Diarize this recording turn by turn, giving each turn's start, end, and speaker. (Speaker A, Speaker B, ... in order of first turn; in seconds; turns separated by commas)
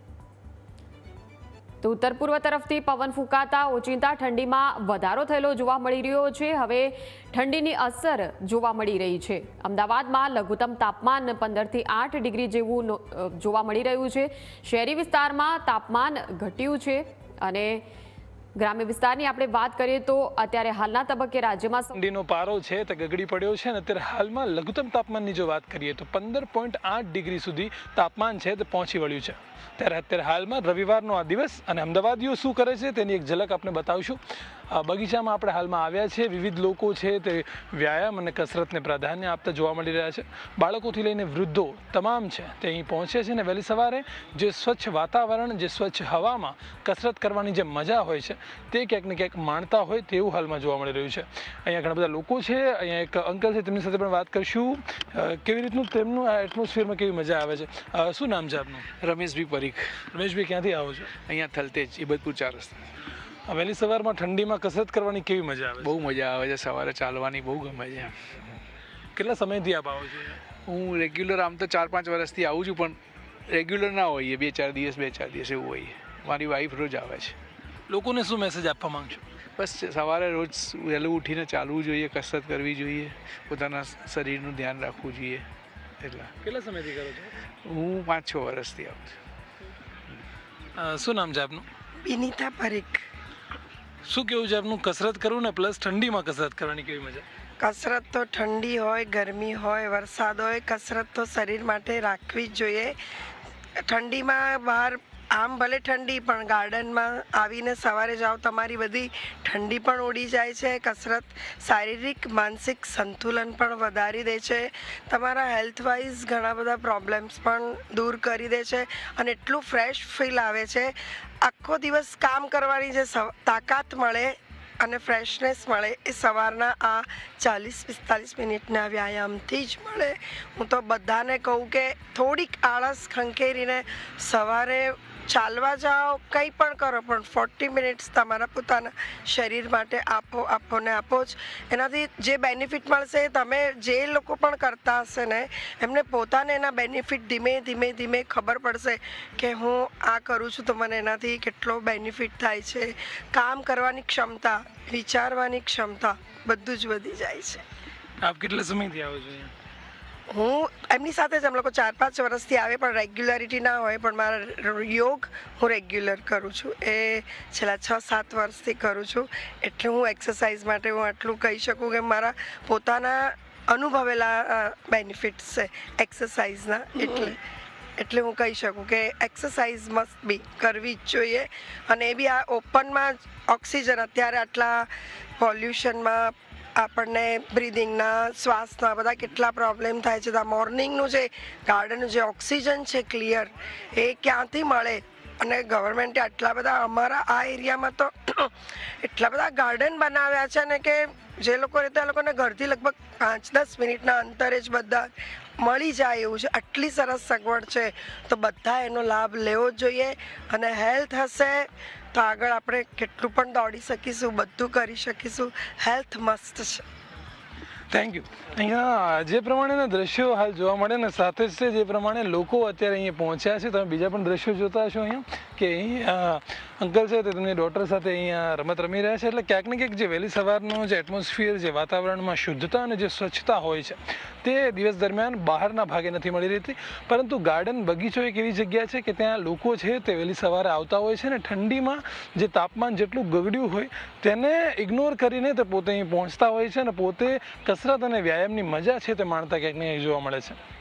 Speaker A: 1.8-17.8, Speaker A: 18.6-21.9, Speaker B: 21.9-58.9, Speaker C: 59.0-60.0, Speaker B: 60.1-61.1, Speaker C: 61.2-62.9, Speaker B: 63.5-66.0, Speaker C: 65.8-68.5, Speaker B: 69.2-70.4, Speaker C: 70.7-73.0, Speaker C: 73.5-77.3, Speaker B: 77.9-79.2, Speaker C: 79.6-85.4, Speaker C: 86.0-86.3, Speaker B: 86.4-87.3, Speaker C: 87.6-89.2, Speaker B: 90.8-91.7, Speaker D: 92.0-93.0, Speaker B: 94.0-97.2, Speaker D: 97.6-103.0, Speaker D: 103.8-157.6, Speaker B: 158.2-159.5, Speaker D: 160.3-177.4, Speaker D: 178.0-216.8, Speaker B: 217.9-250.6